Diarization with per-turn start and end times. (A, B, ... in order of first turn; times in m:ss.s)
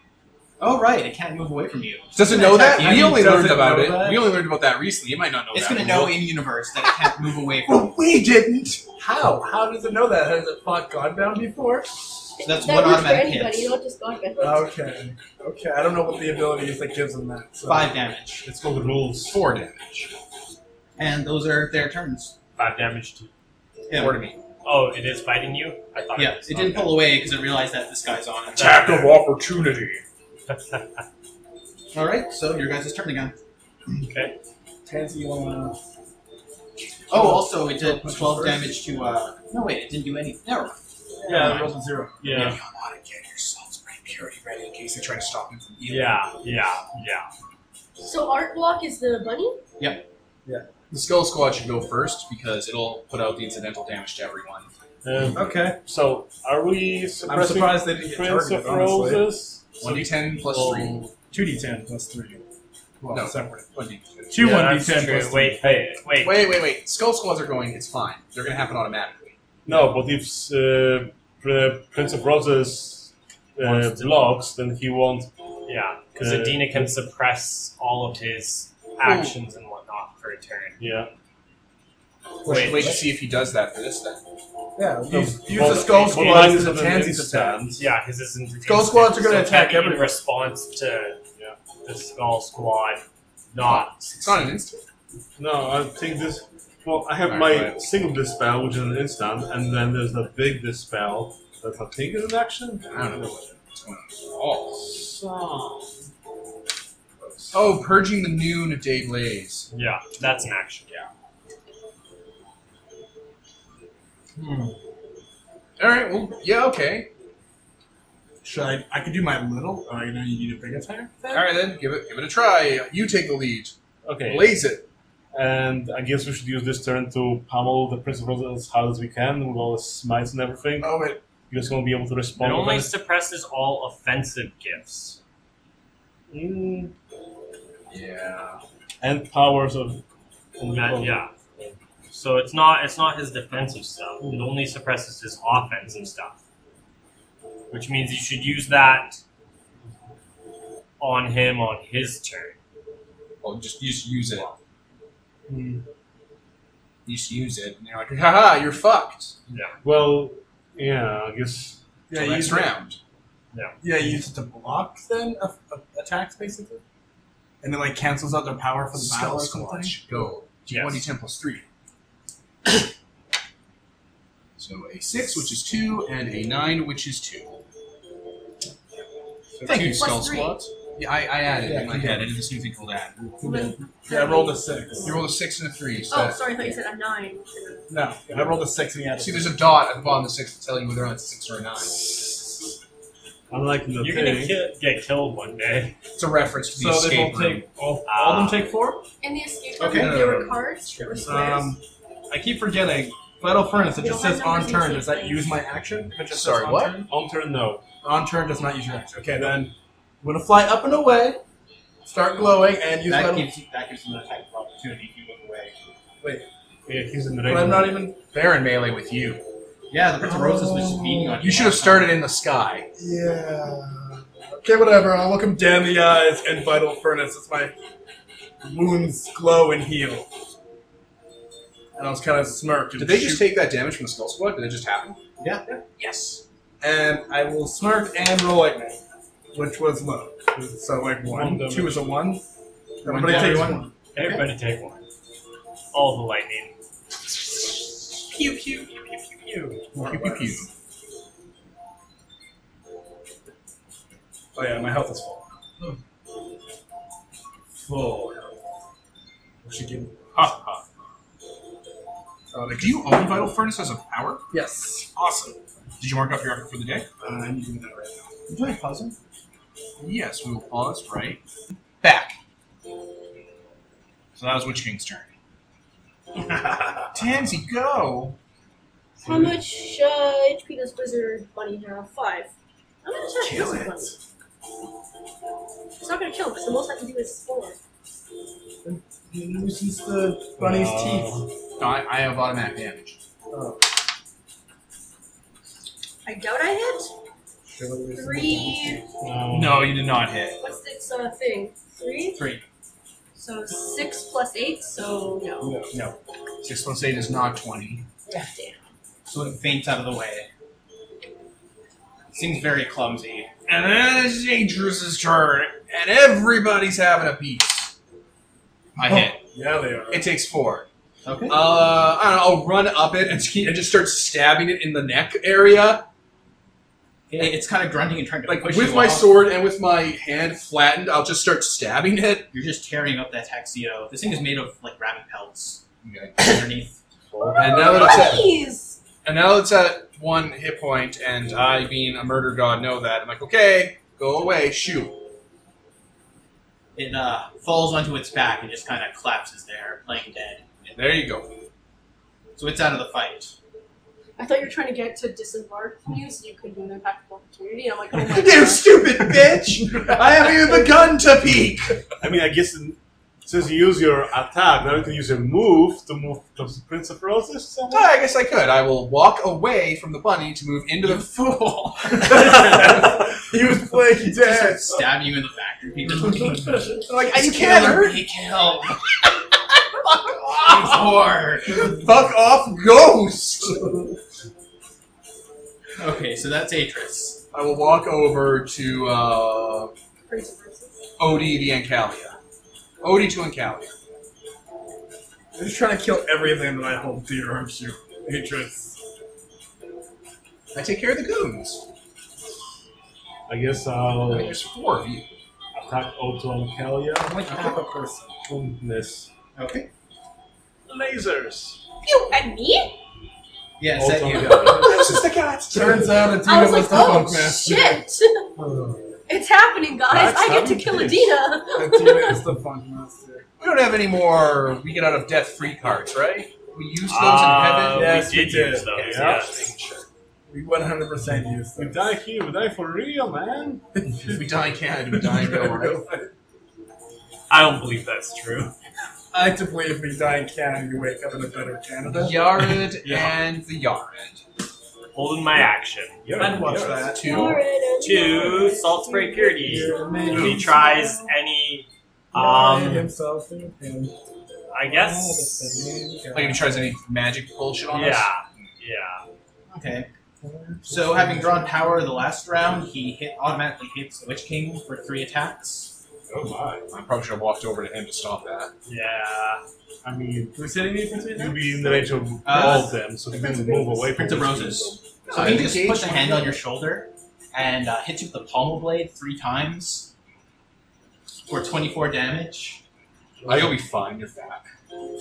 0:00.6-0:03.2 A
0:02.1-0:06.2 B
0:02.3-0:04.4 C
0:05.5-0:07.9 A
0:07.6-0:08.8 B
0:09.0-0:11.9 C
0:12.4-0:14.7 D
0:12.4-0:13.7 A
0:14.4-0:17.9 C
0:17.6-0:18.4 A
0:18.4-0:19.4 E
0:19.2-0:20.1 B
0:21.0-0:22.3 A
0:22.6-0:23.3 F
0:23.9-0:24.2 A
0:23.9-0:24.4 B
0:24.6-0:27.0 F
0:26.1-0:28.9 A
0:28.6-0:30.0 B
0:28.6-0:29.1 F
0:30.5-0:30.8 F
0:31.9-0:33.3 A
0:34.0-0:34.3 F
0:34.8-0:35.8 C
0:37.1-0:41.7 A
0:37.1-0:38.8 C
0:41.2-0:42.3 C
0:42.2-0:42.5 E
0:42.3-0:46.2 B
0:45.9-0:47.3 F
0:48.0-0:49.6 D
0:49.8-0:50.0 A
0:50.9-0:54.7 B
0:55.0-1:01.1 E
0:55.3-0:55.8 C
0:57.2-0:59.3 C
0:59.8-1:01.0 B
1:01.3-1:02.4 C
1:03.0-1:03.6 C
1:03.1-1:04.7 B
1:04.3-1:05.6 C
1:04.4-1:06.5 F
1:05.6-1:06.0 E
1:06.2-1:09.4 B
1:09.6-1:15.3 E
1:13.6-1:14.3 F
1:15.6-1:20.8 F
1:16.2-1:16.9 E
1:19.0-1:19.4 B
1:20.8-1:21.1 E
1:22.4-1:23.0 C
1:22.4-1:24.2 B
1:22.5-1:22.9 F
1:24.8-1:27.8 C
1:25.1-1:27.8 E
1:25.9-1:26.4 B
1:27.8-1:31.2 F
1:28.6-1:30.2 C
1:31.8-1:34.5 F
1:33.6-1:34.8 B
1:35.4-1:43.4 E
1:37.2-1:37.8 B
1:42.9-1:44.9 B
1:44.7-1:45.9 E
1:47.2-1:47.6 E
1:47.5-1:49.7 B
1:49.7-1:51.0 F
1:55.8-1:57.1 B
1:58.4-2:01.4 C
2:01.3-2:04.8 B
2:04.0-2:04.6 E
2:05.3-2:12.9 E
2:10.8-2:11.2 C
2:12.4-2:15.2 F
2:16.3-2:16.9 E
2:17.9-2:18.6 B
2:19.0-2:20.0 E
2:20.6-2:21.8 E
2:20.7-2:21.3 F
2:22.1-2:26.4 F
2:27.7-2:29.2 F
2:31.0-2:32.6 F
2:33.4-2:34.5 B
2:35.5-2:35.8 C
2:37.0-2:39.4 B
2:39.5-2:39.8 F
2:39.8-2:41.8 E
2:42.1-2:42.8 C
2:42.1-2:43.0 B
2:43.8-2:46.8 C
2:47.6-2:50.0 C
2:48.9-2:51.6 B
2:50.7-2:51.0 F
2:54.6-2:57.6 B
2:59.6-2:59.9 C
2:59.6-3:03.6 B
2:59.6-3:00.7 D
3:01.6-3:02.2 C
3:03.4-3:05.2 D
3:03.4-3:05.2 C
3:05.0-3:06.7 B
3:06.1-3:08.0 D
3:07.9-3:09.7 C
3:09.2-3:12.1 B
3:13.5-3:14.6 E
3:14.0-3:15.9 F
3:16.2-3:17.6 B
3:16.7-3:19.0 C
3:18.0-3:18.7 F
3:19.2-3:21.8 D
3:19.8-3:20.2 A
3:20.0-3:20.4 C
3:21.0-3:27.1 C
3:23.8-3:25.6 D
3:26.3-3:27.0 B
3:27.1-3:27.8 E
3:28.0-3:31.4 C
3:29.2-3:29.6 E
3:32.0-3:33.5 C
3:33.1-3:35.7 A
3:36.8-3:38.0 E
3:37.4-3:38.2 C
3:38.3-3:39.4 B
3:39.9-3:42.2 A
3:40.2-3:41.4 C
3:41.4-3:42.9 B
3:43.0-3:47.7 C
3:48.6-3:50.3 C
3:52.0-3:53.5 C
3:53.0-3:55.2 B
3:55.4-3:56.4 A
3:56.8-3:59.0 C
3:59.5-4:02.4 C
4:01.2-4:02.2 E
4:03.0-4:03.9 C
4:03.0-4:04.5 A
4:04.1-4:05.0 F
4:05.9-4:06.7 F
4:09.9-4:10.6 C
4:09.9-4:10.7 B
4:14.5-4:15.5 C
4:17.8-4:18.6 C
4:19.6-4:20.5 C
4:20.3-4:20.8 B
4:22.5-4:22.9 C
4:22.7-4:24.4 B
4:24.5-4:25.1 C
4:25.1-4:27.1 B
4:27.2-4:28.3 C
4:28.5-4:29.1 A
4:30.0-4:31.4 B
4:32.0-4:32.4 B
4:34.3-4:35.3 B
4:37.1-4:38.4 B
4:39.2-4:42.5 D
4:43.0-4:44.2 D
4:43.5-4:43.9 B
4:46.0-4:47.8 D
4:48.8-4:51.3 C
4:50.6-4:51.5 E
4:51.8-4:53.2 B
4:53.5-4:53.8 C
4:56.2-4:57.1 D
4:57.7-4:59.0 C
4:58.1-4:59.0 D
4:59.2-5:00.0 E
4:59.5-5:00.6 B
5:00.6-5:02.4 D
5:02.3-5:02.6 A
5:03.4-5:05.8 D
5:05.6-5:05.9 C
5:06.6-5:08.0 B
5:08.4-5:08.8 D
5:09.2-5:10.5 A
5:12.3-5:13.5 A
5:13.7-5:17.9 B
5:19.0-5:19.4 B
5:19.0-5:20.3 C
5:20.1-5:20.8 B
5:21.2-5:21.6 A
5:21.5-5:26.0 B
5:27.3-5:29.3 A
5:28.5-5:32.5 B
5:32.5-5:35.8 A
5:36.0-5:36.4 B
5:36.4-5:37.0 A
5:37.3-5:37.9 E
5:37.4-5:39.0 D
5:37.6-5:38.5 B
5:39.2-5:45.2 B
5:47.0-5:50.9 A
5:50.9-5:51.6 B
5:52.6-5:53.5 A
5:54.4-5:59.0 D
5:58.3-6:02.0 B
6:02.2-6:08.1 E
6:07.9-6:12.9 B
6:12.2-6:14.9 C
6:14.4-6:16.8 A
6:16.2-6:18.0 C
6:17.1-6:18.2 B
6:17.7-6:19.0 A
6:20.5-6:22.0 A
6:21.8-6:24.0 B
6:26.0-6:27.4 A
6:27.5-6:29.9 B
6:30.3-6:30.9 D
6:31.2-6:32.4 B
6:33.0-6:33.9 B
6:35.5-6:39.0 C
6:40.7-6:41.8 B
6:43.5-6:44.6 E
6:44.2-6:45.3 B
6:45.7-6:47.4 E
6:47.2-6:48.4 C
6:47.5-6:47.8 A
6:48.4-6:49.3 E
6:49.5-6:49.9 A
6:50.9-6:51.8 E
6:52.0-6:52.9 D
6:53.8-6:54.8 A
6:53.9-6:55.0 E
6:54.6-6:55.2 D
6:54.7-6:56.2 B
6:55.7-6:58.0 C
6:56.4-6:58.5 D
6:58.6-6:59.0 E
6:59.3-7:02.5 D
7:00.1-7:01.4 E
7:01.7-7:03.4 C
7:03.6-7:08.2 B
7:07.0-7:09.5 F
7:07.9-7:08.9 C
7:08.9-7:10.1 B
7:09.0-7:09.5 E
7:10.5-7:12.1 C
7:11.8-7:13.8 E
7:14.0-7:14.4 C
7:14.3-7:16.0 B
7:15.1-7:16.3 C
7:17.5-7:18.7 F
7:19.3-7:22.4 C
7:22.2-7:24.4 B
7:25.1-7:26.3 F
7:26.2-7:27.0 E
7:26.3-7:27.2 C
7:26.6-7:27.6 B
7:27.1-7:31.3 D
7:28.0-7:33.1 F
7:29.6-7:30.9 C
7:30.3-7:30.7 B
7:32.3-7:34.1 C
7:34.7-7:36.0 F
7:34.8-7:36.9 C
7:36.3-7:38.3 B
7:37.9-7:39.2 F
7:39.7-7:40.1 A
7:40.4-7:41.9 C
7:40.8-7:45.9 A
7:46.3-7:46.8 E
7:46.9-7:48.7 B
7:48.8-7:49.6 F
7:50.0-7:50.6 E
7:50.5-7:52.6 C
7:51.3-7:55.0 E
7:52.4-7:53.0 A
7:53.3-7:54.0 D
7:54.1-8:00.1 A
7:55.3-7:56.6 B
8:01.5-8:02.8 A
8:03.4-8:03.7 E
8:03.4-8:04.6 B